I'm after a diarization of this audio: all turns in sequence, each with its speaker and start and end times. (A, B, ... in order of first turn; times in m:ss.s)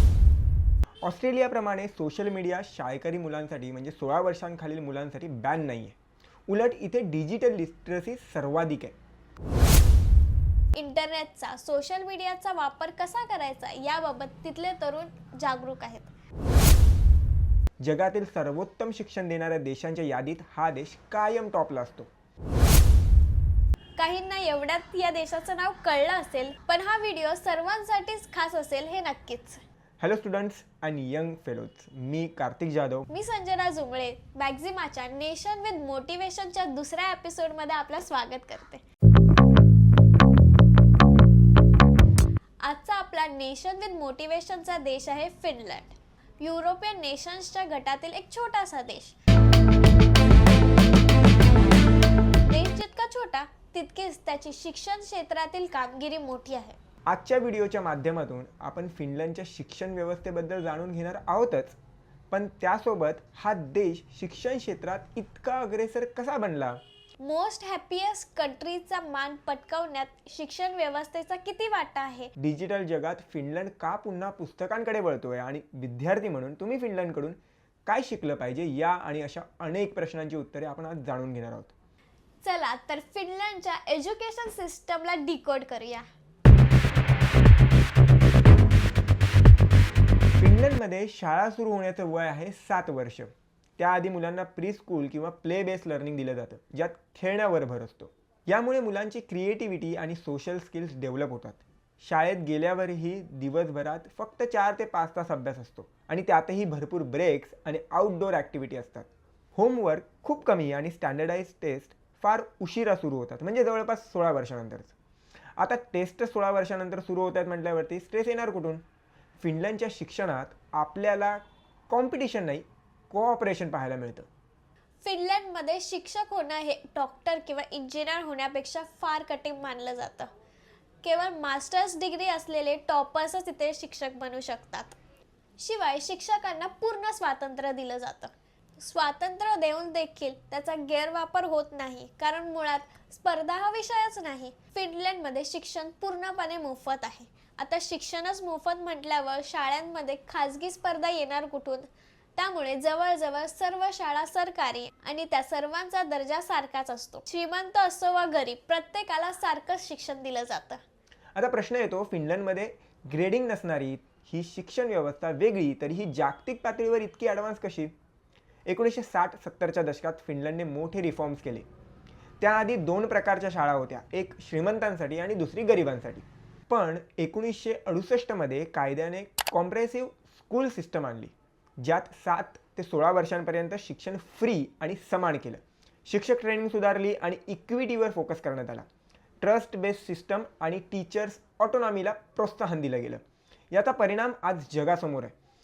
0:01.0-0:06.0 A
0:06.5-0:08.9 A
0:10.7-0:16.1 B
0:17.8-0:22.1 A
0:24.0-0:29.6 B
0:30.0-0:33.1 A
0:33.1-0:38.8 B
0:42.6-0:49.2 B
0:52.4-0:56.8 B
0:57.1-1:01.8 A
1:02.3-1:06.8 A
1:07.2-1:12.3 B
1:12.4-1:21.7 A
1:22.4-1:26.0 B
1:30.4-1:54.9 A
1:55.6-1:58.8 A
1:59.4-2:04.3 A
2:05.0-2:10.3 B
2:11.0-2:15.0 B
2:15.6-2:40.8 B
2:41.3-2:47.9 A
2:48.6-2:51.6 A
2:52.4-3:08.9 A
3:09.4-3:15.3 A